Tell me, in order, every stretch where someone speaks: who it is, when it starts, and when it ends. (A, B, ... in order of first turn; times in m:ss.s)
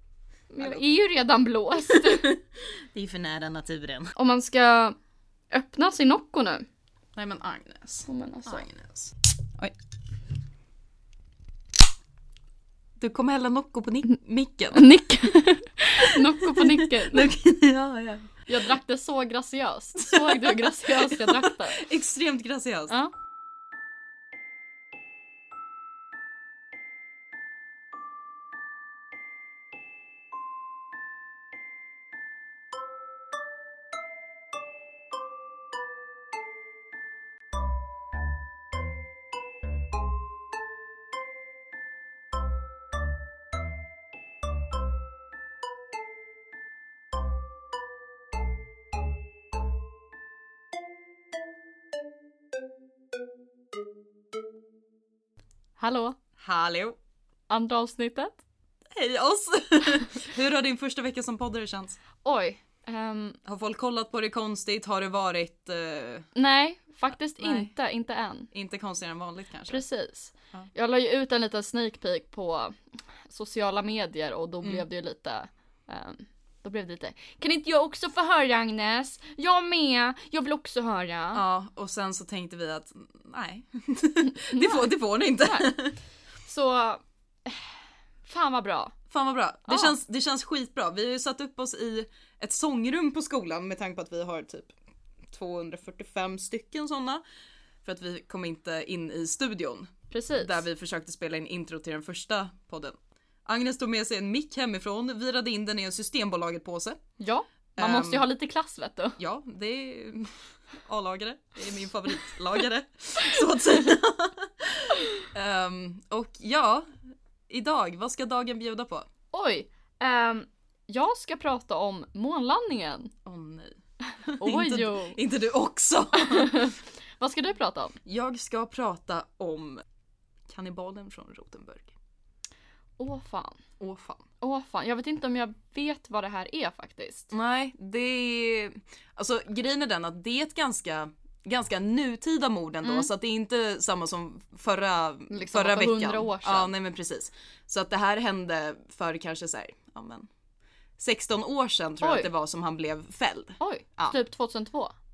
0:00.5-0:02.4 A
0:01.9-0:04.1 B
0:04.2-0:05.0 A
0:05.5-0:06.7 A
0:07.2-0:09.8 B
0:08.1-0:08.7 A
0:13.0-0:15.0 B
0:14.7-0:17.3 A
0:16.0-0:18.7 B
0:18.5-0:21.9 A
0:20.0-0:23.0 B
0:55.8-0:56.2 A
0:56.4-0:57.0 B
0:57.5-0:58.4 A
0:58.9-1:02.0 B
1:02.2-1:03.4 A
1:03.4-1:06.3 B
1:06.4-1:08.5 A
1:07.4-1:07.7 B
1:08.5-1:09.8 B
1:09.7-1:12.7 A
1:13.3-1:21.4 A
1:21.3-1:26.0 B
1:24.5-1:24.9 A
1:25.4-1:25.7 A
1:26.4-1:29.0 A
1:29.1-1:34.7 B
1:29.7-1:30.0 A
1:35.3-1:37.2 B
1:37.8-1:47.0 B
1:40.1-1:40.6 A
1:47.2-1:49.2 A
1:47.8-1:48.2 B
1:49.2-1:59.1 B
1:59.3-2:03.1 A
2:03.2-2:03.8 B
2:04.3-2:06.7 B
2:04.4-2:05.2 A
2:06.1-2:08.0 A
2:08.0-2:09.8 B
2:10.5-2:12.0 B
2:13.0-2:13.6 A
2:13.8-2:14.2 B
2:14.4-2:17.3 A
2:17.3-2:30.3 B
2:22.8-2:23.1 A
2:25.3-2:26.7 A
2:31.0-2:34.2 B
2:32.0-2:32.3 A
2:33.6-2:34.9 A